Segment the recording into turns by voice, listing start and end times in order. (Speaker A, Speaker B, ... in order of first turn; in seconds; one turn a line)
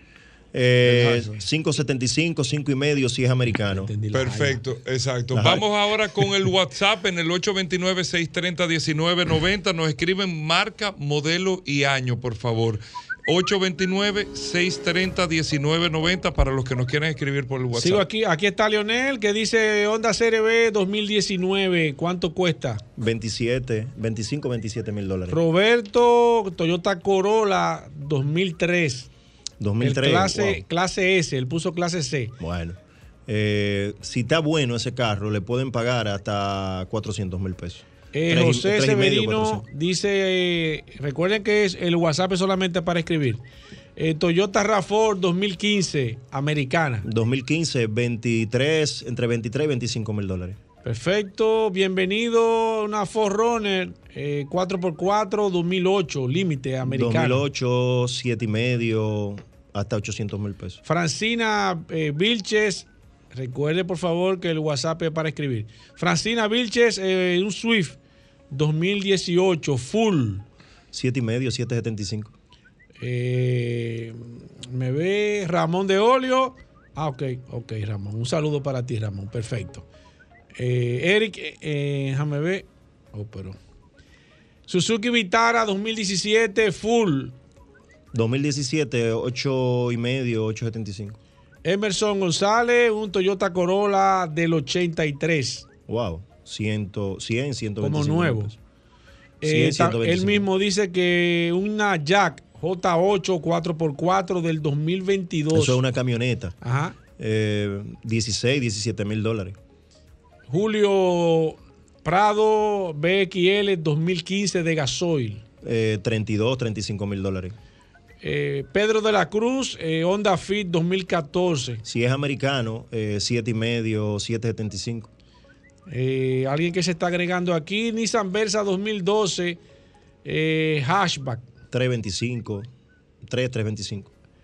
Speaker A: 0.5-3.9
Speaker B: 0.8-1.4
Speaker C: 3.7-4.6
Speaker B: 4.1-18.0
Speaker A: 5.3-5.6
Speaker C: 17.7-22.8
Speaker A: 23.0-25.4
Speaker C: 25.3-29.1
Speaker A: 29.6-30.6
Speaker C: 29.8-32.4
Speaker A: 32.4-39.6
Speaker C: 38.1-43.4
Speaker C: 44.0-47.1
Speaker A: 47.0-50.6
Speaker C: 50.8-57.4
Speaker A: 56.8-60.8
Speaker C: 60.9-68.0
Speaker C: 68.5-70.4
Speaker A: 70.9-72.3
Speaker C: 73.0-79.8
Speaker C: 80.5-83.6
Speaker C: 84.7-87.3
Speaker A: 88.1-91.2
Speaker C: 91.6-95.7
Speaker A: 95.9-98.5
Speaker C: 97.8-98.5
Speaker C: 99.4-105.8
Speaker A: 99.4-100.5
Speaker A: 105.5-106.5
Speaker C: 106.6-107.0
Speaker A: 107.2-109.6
Speaker C: 110.5-115.4
Speaker A: 115.6-117.5
Speaker C: 118.2-121.8
Speaker A: 121.8-125.1
Speaker C: 125.9-129.6
Speaker C: 130.2-131.4
Speaker A: 131.7-132.7
Speaker A: 133.2-134.1